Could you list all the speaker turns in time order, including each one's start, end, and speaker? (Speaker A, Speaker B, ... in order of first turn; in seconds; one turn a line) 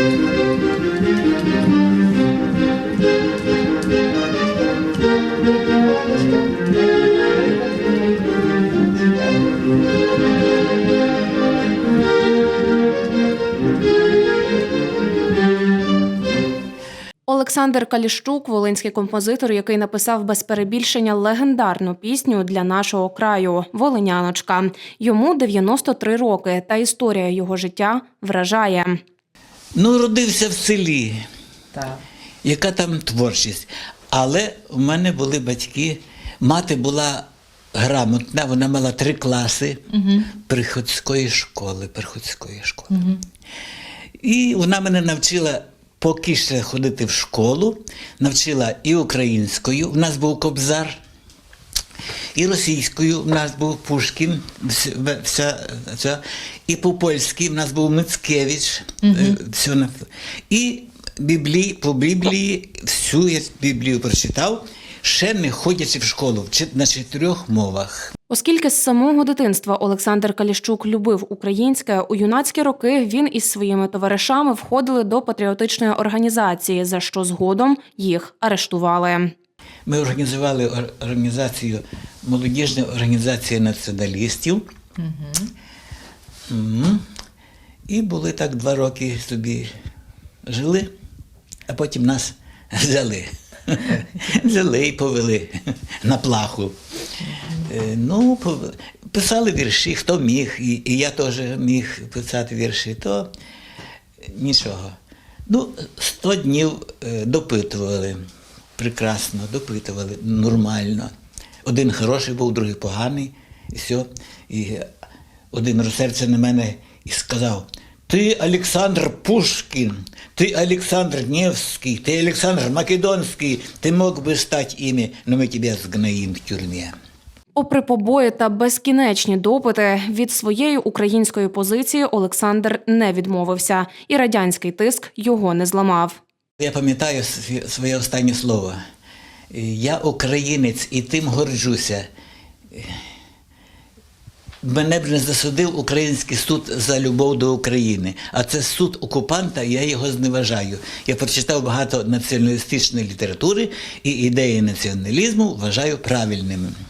Speaker A: 7.8-9.3
Speaker B: 17.3-29.0
Speaker C: 29.8-31.2
Speaker A: 31.7-32.0
Speaker C: 32.4-43.1
Speaker A: 40.0-40.2
Speaker A: 42.9-43.2
Speaker C: 44.2-51.0
Speaker C: 52.4-59.9
Speaker C: 60.5-68.1
Speaker B: 68.3-79.3
Speaker C: 79.9-84.7
Speaker A: 85.0-85.5
Speaker C: 86.5-87.0
Speaker C: 87.9-89.7
Speaker C: 90.5-90.9
Speaker C: 91.7-96.8
Speaker C: 97.5-103.3
Speaker C: 104.2-105.0
Speaker C: 105.5-108.2
Speaker C: 108.8-111.1
Speaker C: 111.7-114.9
Speaker C: 115.5-126.9
Speaker B: 127.5-136.2
Speaker C: 136.6-138.8
Speaker C: 139.5-142.1
Speaker C: 142.7-143.0
Speaker C: 144.6-156.7